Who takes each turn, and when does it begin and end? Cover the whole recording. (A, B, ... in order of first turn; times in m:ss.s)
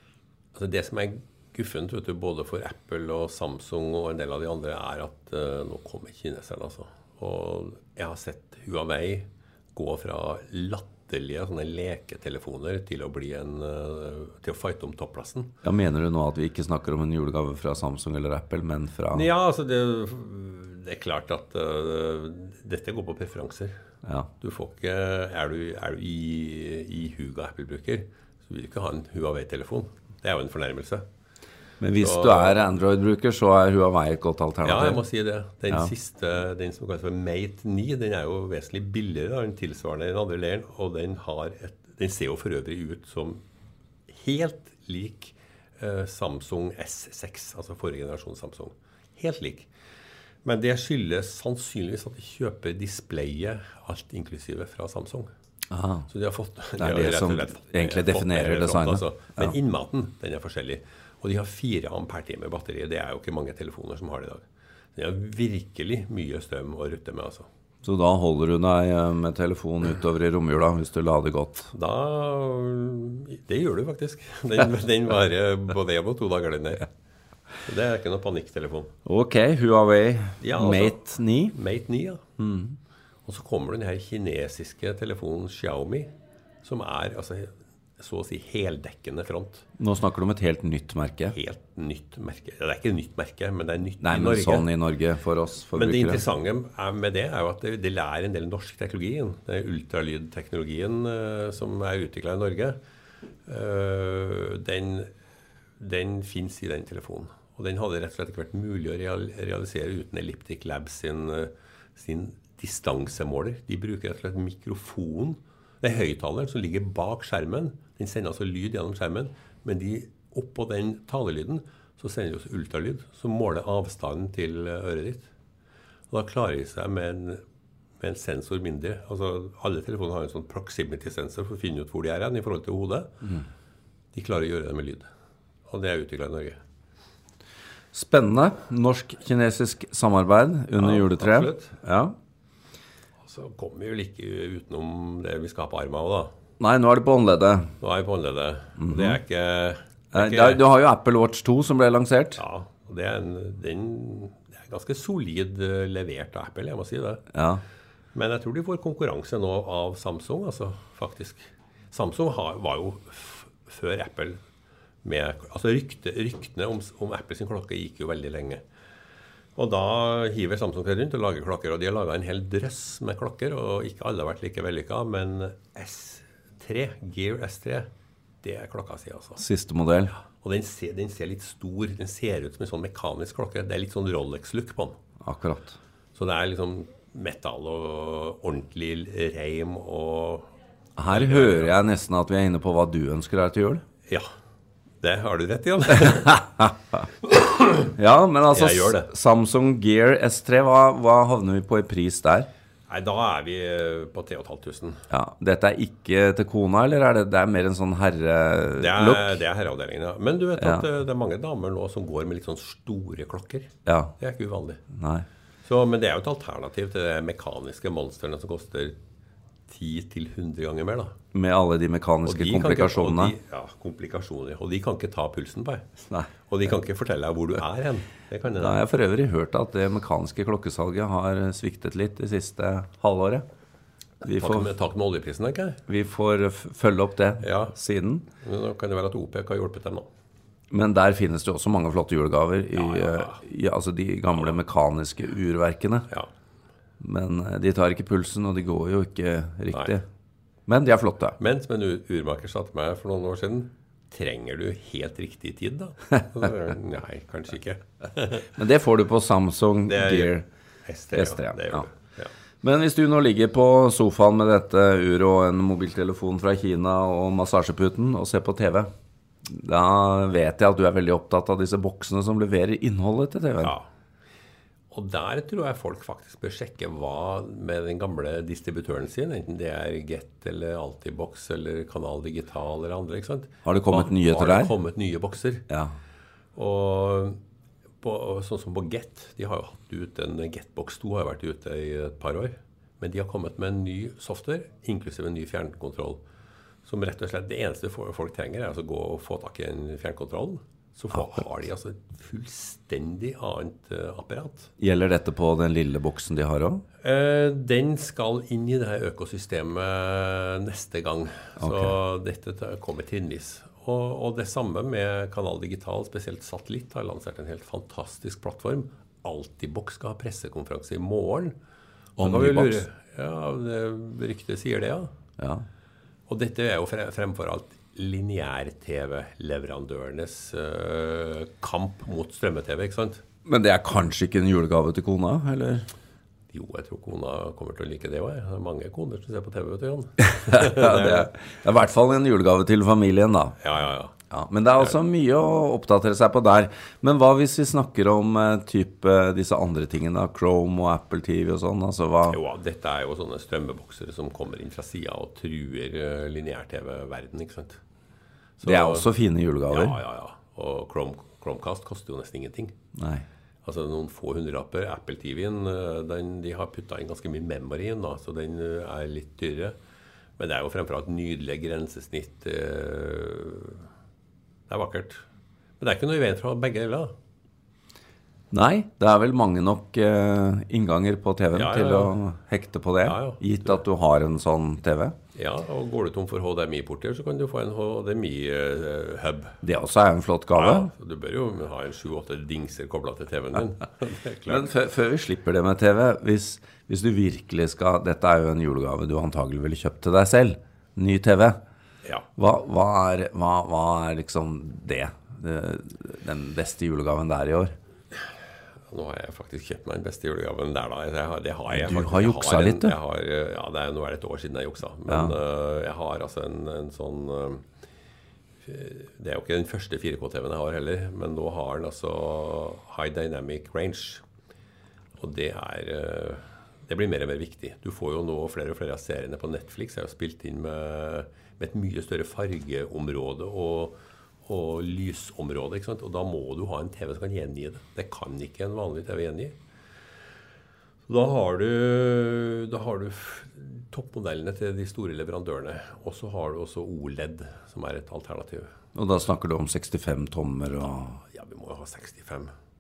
0:00.6-0:15.5 A
0:15.6-0:19.3 B
0:19.1-0:23.7 A
0:24.4-0:31.0 A
0:31.8-0:35.0 B
0:32.0-0:32.6 A
0:34.6-0:43.4 A
0:44.1-0:49.7 A
0:50.4-0:55.3 A
0:55.7-0:56.1 B
0:56.1-1:04.4 A
0:56.8-0:59.6 B
1:05.0-1:07.5 A
1:07.8-1:11.7 B
1:11.7-1:16.9 A
1:17.6-1:18.9 A
1:19.1-1:21.6 B
1:20.4-1:22.2 A
1:22.4-1:22.8 B
1:23.3-1:26.1 A
1:26.6-1:29.7 A
1:29.8-1:31.4 B
1:31.3-1:34.7 A
1:34.0-1:36.2 B
1:35.7-1:42.8 A
1:43.5-1:45.1 A
1:45.8-2:05.3 A
2:06.1-2:07.4 A
2:08.0-2:13.1 A
2:14.1-2:15.1 A
2:15.7-2:16.6 A
2:17.9-2:22.2 B
2:20.8-2:21.7 A
2:23.3-2:26.3 A
2:26.6-2:27.7 B
2:27.8-2:30.6 A
2:28.8-2:29.2 B
2:30.1-2:32.4 B
2:32.4-2:37.2 A
2:37.3-2:37.6 B
2:38.1-2:44.4 A
2:45.0-2:48.6 A
2:49.6-2:57.9 A
2:58.4-2:59.4 A
2:59.4-3:00.1 B
3:00.2-3:05.0 A
3:05.2-3:05.8 B
3:06.2-3:10.5 A
3:11.0-3:13.8 B
3:11.1-3:11.7 A
3:15.0-3:16.7 A
3:17.2-3:18.0 A
3:18.0-3:22.5 B
3:18.5-3:19.1 A
3:22.9-3:25.0 A
3:25.1-3:29.4 B
3:28.8-3:34.8 A
3:30.6-3:30.8 B
3:33.9-3:34.1 B
3:34.9-3:35.2 B
3:35.6-3:39.0 A
3:39.7-3:41.1 A
3:41.3-3:43.4 B
3:42.2-3:45.9 A
3:46.5-3:48.8 A
3:48.6-3:53.4 B
3:54.2-3:54.7 B
3:54.3-3:55.8 A
3:55.9-3:58.2 B
3:57.4-3:57.7 A
3:58.4-4:00.1 A
4:00.7-4:06.1 B
4:02.7-4:03.4 A
4:07.0-4:10.0 B
4:10.7-4:11.4 B
4:11.4-4:18.5 A
4:18.5-4:20.4 B
4:19.9-4:22.3 A
4:21.1-4:21.8 B
4:22.6-4:28.9 B
4:29.5-4:33.8 B
4:33.6-4:33.9 A
4:34.9-4:45.6 A
4:43.6-4:44.7 B
4:46.6-4:47.4 A
4:48.0-4:56.2 A
4:56.8-5:04.7 A
5:04.8-5:06.8 B
5:07.0-5:21.6 A
5:11.6-5:11.9 B
5:22.2-5:22.8 B
5:22.2-5:25.1 A
5:25.4-5:25.6 B
5:26.3-5:33.2 A
5:33.4-5:35.9 B
5:36.5-5:41.3 A
5:40.4-5:43.6 B
5:43.6-5:44.1 A
5:44.3-5:52.4 B
5:52.3-5:57.8 A
5:58.6-5:59.1 A
5:58.6-6:00.0 B
5:59.7-6:02.8 A
6:03.0-6:03.2 B
6:03.6-6:09.8 A
6:10.4-6:13.9 A
6:14.7-6:15.2 A
6:15.8-6:17.1 A
6:18.5-6:25.2 B
6:21.5-6:22.2 A
6:23.0-6:23.8 A
6:25.4-6:29.6 A
6:29.6-6:30.9 B
6:30.5-6:34.7 A
6:34.5-6:41.6 B
6:42.4-6:47.7 B
6:48.9-6:57.6 A
6:51.7-6:53.0 B
6:55.1-6:55.4 B
6:58.6-7:04.2 A
7:05.2-7:19.6 A
7:21.1-7:28.7 A
7:29.0-7:31.2 B
7:31.2-7:32.5 A